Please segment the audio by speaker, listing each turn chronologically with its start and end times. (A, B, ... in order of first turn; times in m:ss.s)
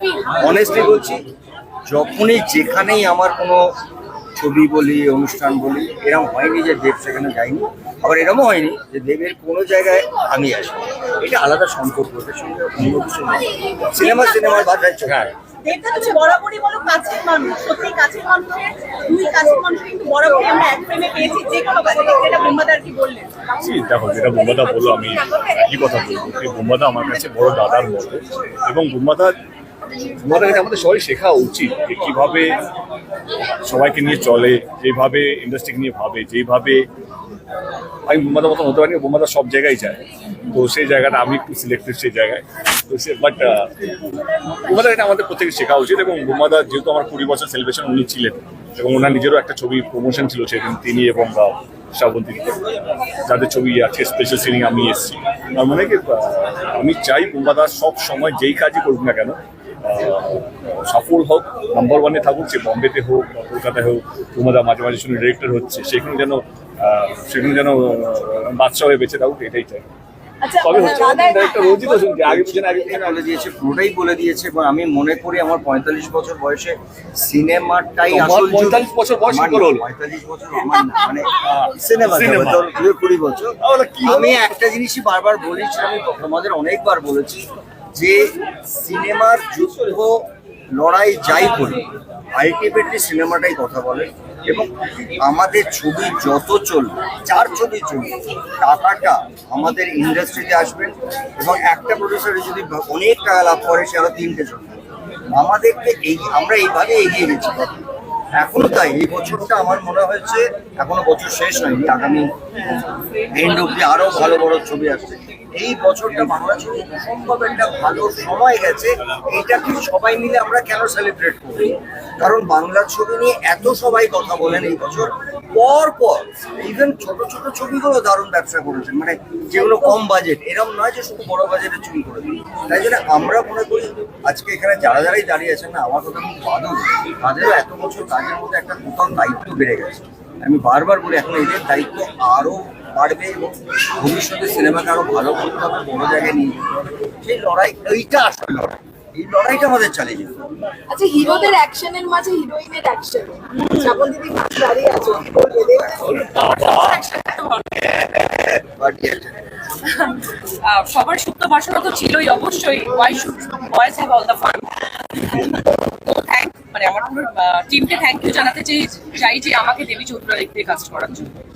0:00.4-0:01.2 A
0:01.8-0:03.7 A
0:04.4-0:15.3 A
0:14.0-0:14.7 B
0:15.6-0:23.3 B
0:23.6-0:29.3 C
0:30.2-0:32.6 C
0:33.6-0:36.9 C
0:38.1-0:43.7 C
0:44.5-0:52.6 C
0:53.2-1:09.8 C
1:10.6-1:13.2 C
1:12.0-1:31.8 A
1:18.1-1:19.8 C
1:21.4-1:22.6 C
1:23.6-1:24.4 C
1:32.3-1:34.7 A
1:35.2-1:44.8 A
1:45.3-1:47.7 A
1:48.4-1:52.2 A
1:53.3-2:26.6 A
2:27.2-2:30.4 A
2:30.9-2:35.6 D
2:35.9-2:37.0 C
2:36.0-2:38.3 E
2:38.6-2:39.4 A
2:39.8-2:51.3 E